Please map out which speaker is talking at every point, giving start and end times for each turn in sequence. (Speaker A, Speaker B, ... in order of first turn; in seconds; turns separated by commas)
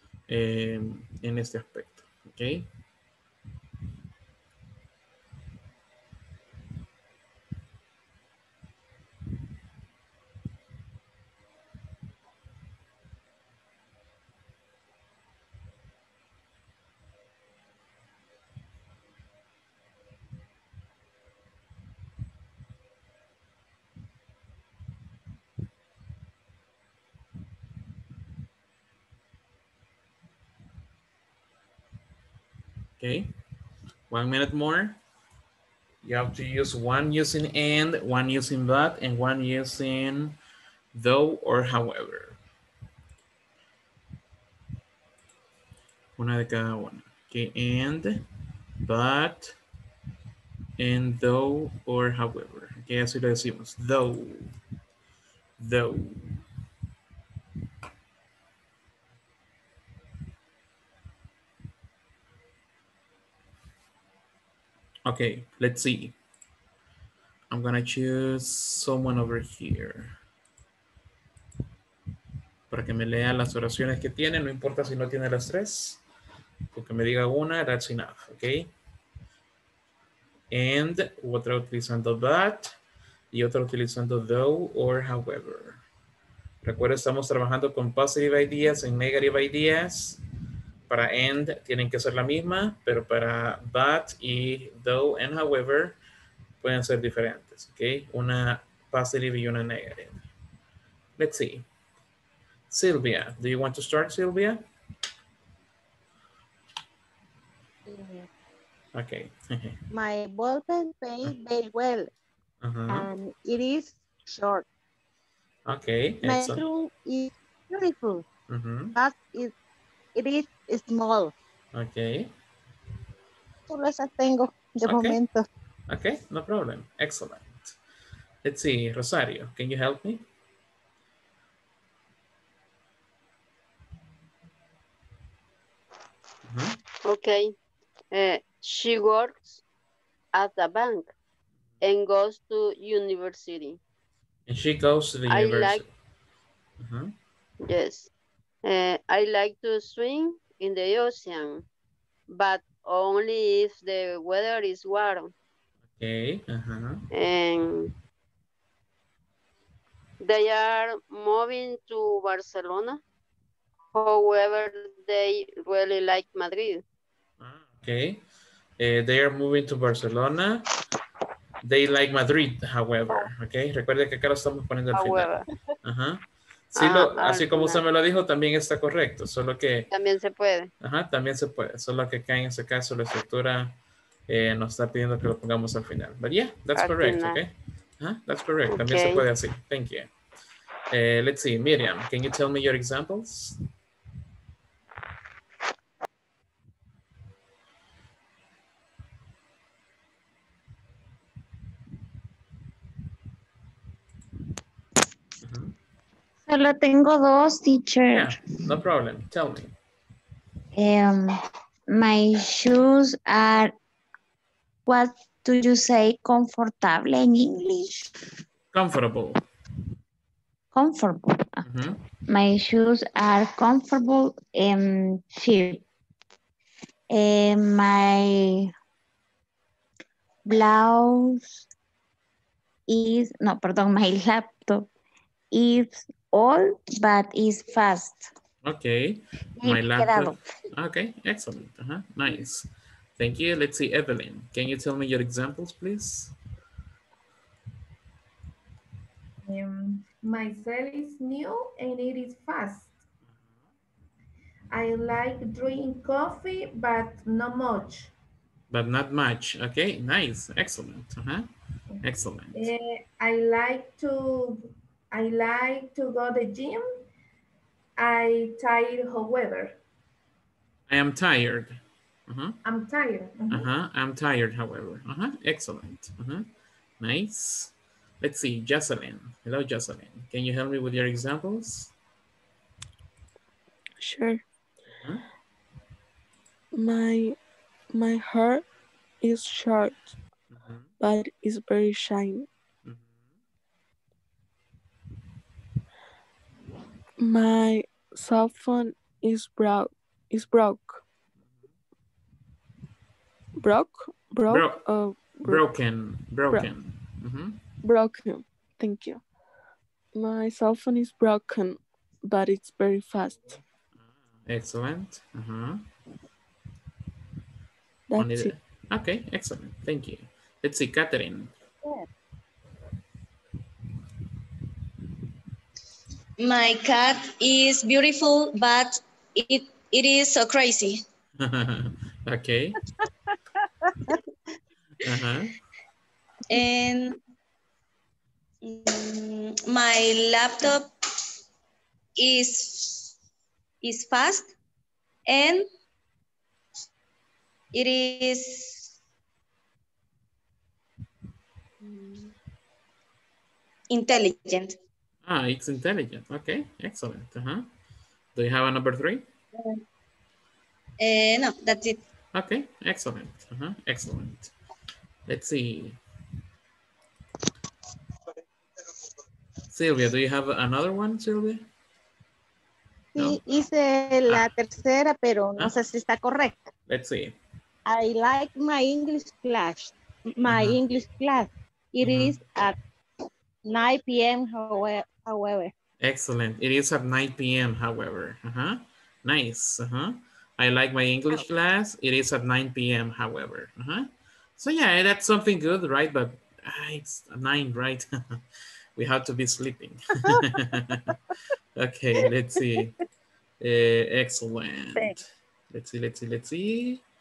Speaker A: 0.3-2.7, Speaker A: 33.0-33.3, Speaker A: 34.1-35.0, Speaker A: 36.0-40.4, Speaker A: 40.9-42.4, Speaker A: 46.2-48.2, Speaker A: 48.8-49.5, Speaker A: 50.8-54.5, Speaker A: 55.6-56.4, Speaker A: 65.0-66.1, Speaker A: 67.5-70.1, Speaker A: 72.7-76.0, Speaker A: 76.7-78.7, Speaker A: 80.5-82.7, Speaker A: 83.3-85.8, Speaker A: 86.6-90.2, Speaker A: 90.9-96.0, Speaker A: 96.6-100.2, Speaker A: 101.2-101.7, Speaker A: 102.7-104.6, Speaker B: 107.9-108.3, Speaker A: 108.9-109.8, Speaker B: 109.9-112.1, Speaker A: 112.6-113.1, Speaker B: 112.9-114.7, Speaker A: 115.7-116.6, Speaker B: 116.2-118.2, Speaker A: 118.5-118.9, Speaker B: 118.9-119.5, Speaker B: 120.1-121.3, Speaker A: 121.7-122.3, Speaker B: 123.7-125.5, Speaker A: 124.8-125.2, Speaker A: 125.9-127.8, Speaker A: 128.4-130.2, Speaker A: 136.4-136.8, Speaker C: 137.0-137.5, Speaker C: 138.1-139.6, Speaker C: 140.3-141.1, Speaker C: 141.8-143.8, Speaker A: 144.5-145.9, Speaker C: 145.3-145.8, Speaker A: 146.8-147.1, Speaker C: 147.6-148.1, Speaker C: 148.6-151.6, Speaker C: 152.3-155.3, Speaker A: 156.0-157.0, Speaker C: 157.1-157.9, Speaker C: 160.2-163.0, Speaker C: 163.9-166.8, Speaker A: 167.4-168.2, Speaker A: 168.8-170.7, Speaker A: 171.6-175.3, Speaker C: 174.9-175.4, Speaker A: 175.8-179.9, Speaker C: 176.8-177.8, Speaker C: 179.9-180.7, Speaker A: 180.8-183.7, Speaker A: 184.3-190.1, Speaker C: 186.8-187.4, Speaker C: 188.7-189.2, Speaker A: 190.9-193.6, Speaker A: 205.4-205.7, Speaker D: 206.4-208.5, Speaker A: 208.1-209.7, Speaker D: 210.7-211.4, Speaker D: 211.9-213.7, Speaker D: 214.8-218.1, Speaker A: 218.7-219.4, Speaker D: 220.7-221.6, Speaker A: 221.6-222.0, Speaker D: 222.3-225.8, Speaker D: 227.1-228.7, Speaker D: 230.4-231.6, Speaker D: 232.9-234.9, Speaker D: 235.5-238.3, Speaker A: 238.6-246.3, Speaker D: 239.6-240.3, Speaker E: 249.4-252.9, Speaker E: 254.7-258.1, Speaker A: 258.7-261.5, Speaker E: 261.9-267.0, Speaker A: 262.0-262.7, Speaker E: 268.0-269.8, Speaker A: 270.9-272.6, Speaker E: 272.6-273.7, Speaker A: 273.5-276.5, Speaker A: 277.0-281.9, Speaker F: 284.0-284.4, Speaker A: 284.9-285.2, Speaker F: 286.7-287.4, Speaker F: 287.9-288.6, Speaker F: 289.2-290.1, Speaker A: 290.5-290.9, Speaker F: 291.0-292.5, Speaker F: 297.2-301.0, Speaker F: 303.6-305.6, Speaker A: 304.5-304.8, Speaker A: 305.4-307.6, Speaker F: 307.8-309.2, Speaker F: 310.1-313.5, Speaker A: 314.4-315.9, Speaker F: 318.1-318.5, Speaker A: 318.2-321.5, Speaker G: 326.4-331.0, Speaker A: 331.4-332.8, Speaker A: 335.0-335.5, Speaker G: 336.5-337.2, Speaker G: 338.6-340.9, Speaker G: 342.2-343.1, Speaker G: 343.8-344.5, Speaker G: 345.2-345.7, Speaker G: 347.7-348.9, Speaker G: 353.9-354.8, Speaker A: 355.2-357.7, Speaker A: 358.3-359.2, Speaker G: 359.5-359.8, Speaker G: 361.0-362.0, Speaker A: 362.3-364.5, Speaker A: 365.3-366.0, Speaker A: 369.7-371.7, Speaker B: 373.1-376.7, Speaker A: 375.6-375.8, Speaker A: 376.9-377.4, Speaker B: 377.9-382.8, Speaker A: 380.4-380.8, Speaker A: 382.0-382.4, Speaker B: 383.6-385.7, Speaker A: 386.0-398.4, Speaker A: 398.9-401.2, Speaker A: 401.8-402.9, Speaker A: 403.6-407.0